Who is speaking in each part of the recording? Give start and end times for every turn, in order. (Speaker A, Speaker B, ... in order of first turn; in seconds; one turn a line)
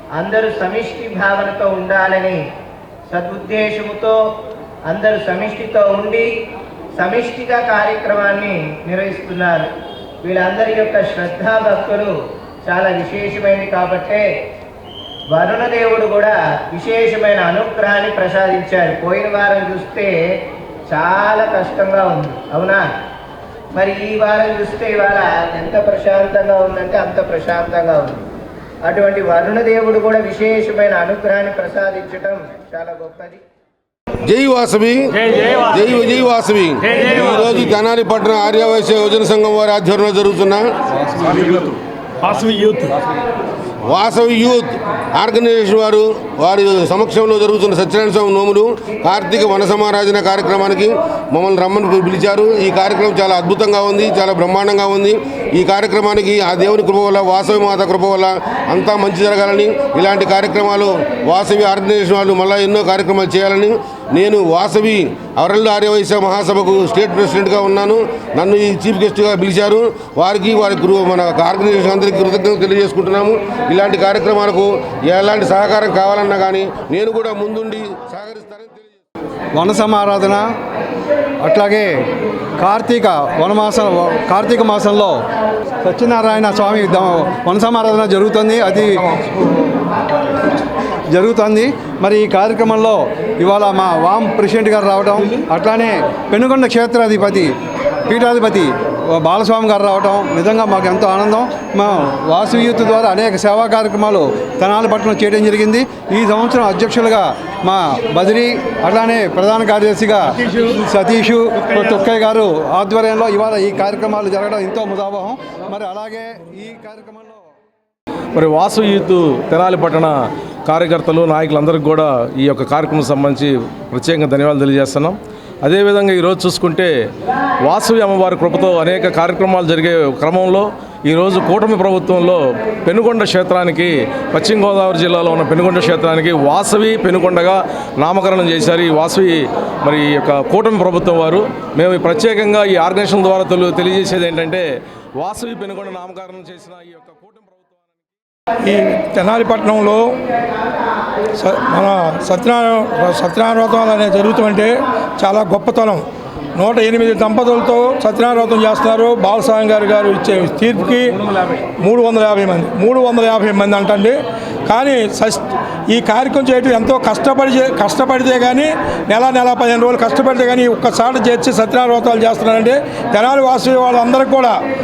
Speaker A: 0.1-2.4
Speaker A: 3.1-4.3
Speaker A: 4.9-6.3
Speaker A: 7.0-9.7
Speaker A: 10.2-14.3
Speaker A: 15.3-20.4
Speaker A: 20.9-22.9
Speaker A: 23.7-28.2
Speaker A: 28.8-33.4
Speaker B: 34.2-40.7
Speaker C: 41.2-41.5
Speaker B: 43.9-79.0
Speaker C: 79.6-80.5
Speaker C: 81.4-81.9
Speaker C: 82.6-85.2
Speaker C: 85.8-89.2
Speaker C: 91.1-97.5
Speaker C: 98.1-117.4
Speaker D: 118.3-120.2
Speaker D: 120.7-126.9
Speaker D: 127.7-144.7
Speaker D: 145.2-148.0
Speaker E: 148.7-150.1
Speaker E: 151.4-156.0
Speaker E: 156.6-161.2
Speaker E: 161.8-174.6